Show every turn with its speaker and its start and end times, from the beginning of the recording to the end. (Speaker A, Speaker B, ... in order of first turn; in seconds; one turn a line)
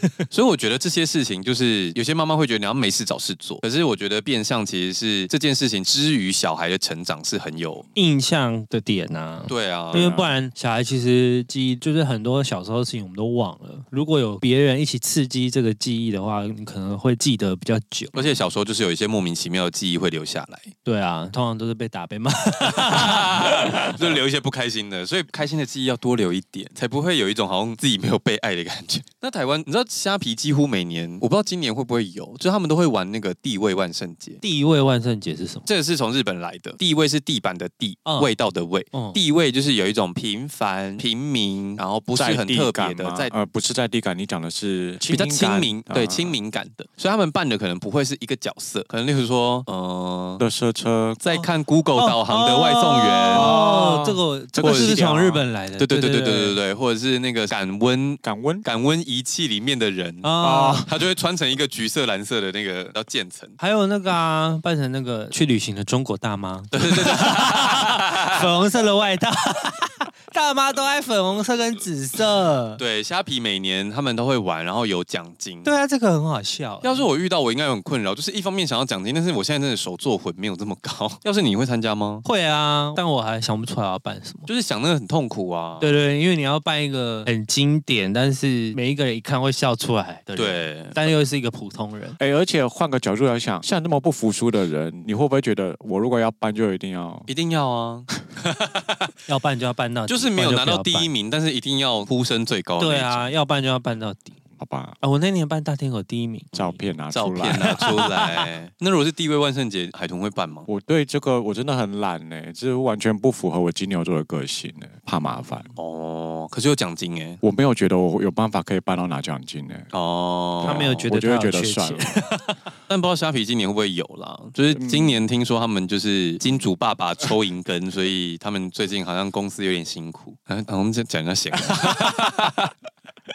Speaker A: 0.3-7.9
Speaker B: 8.0-18.4
Speaker A: 9.5-10.3
Speaker A: 18.1-20.7
Speaker B: 20.9-24.1
Speaker A: 22.7-34.4
Speaker B: 34.4-35.7
Speaker A: 35.7-43.3
Speaker B: 38.1-38.3
Speaker B: 38.9-39.2
Speaker C: 42.2-46.4
Speaker A: 45.1-50.4
Speaker C: 50.4-51.2
Speaker A: 51.2-53.5
Speaker B: 51.3-56.6
Speaker C: 53.3-55.4
Speaker A: 54.6-55.0
Speaker A: 55.8-60.3
Speaker C: 58.2-58.6
Speaker B: 60.2-60.9
Speaker C: 60.4-60.9
Speaker A: 60.8-63.6
Speaker B: 63.6-72.8
Speaker A: 66.7-68.5
Speaker A: 72.8-75.7
Speaker B: 75.6-77.1
Speaker A: 76.8-82.2
Speaker B: 82.2-84.5
Speaker A: 84.5-86.0
Speaker B: 85.8-92.2
Speaker A: 90.4-91.0
Speaker C: 92.2-97.3
Speaker A: 97.3-99.1
Speaker B: 99.3-101.1
Speaker A: 100.1-103.3
Speaker B: 102.8-104.4
Speaker C: 104.6-105.0
Speaker B: 105.0-106.8
Speaker C: 106.5-108.0
Speaker A: 107.1-110.7
Speaker B: 107.6-108.5
Speaker C: 110.7-115.7
Speaker A: 115.8-117.4
Speaker C: 117.4-119.9
Speaker A: 119.9-121.0
Speaker C: 120.6-122.1
Speaker B: 120.6-122.6
Speaker A: 122.9-132.7
Speaker C: 124.7-125.2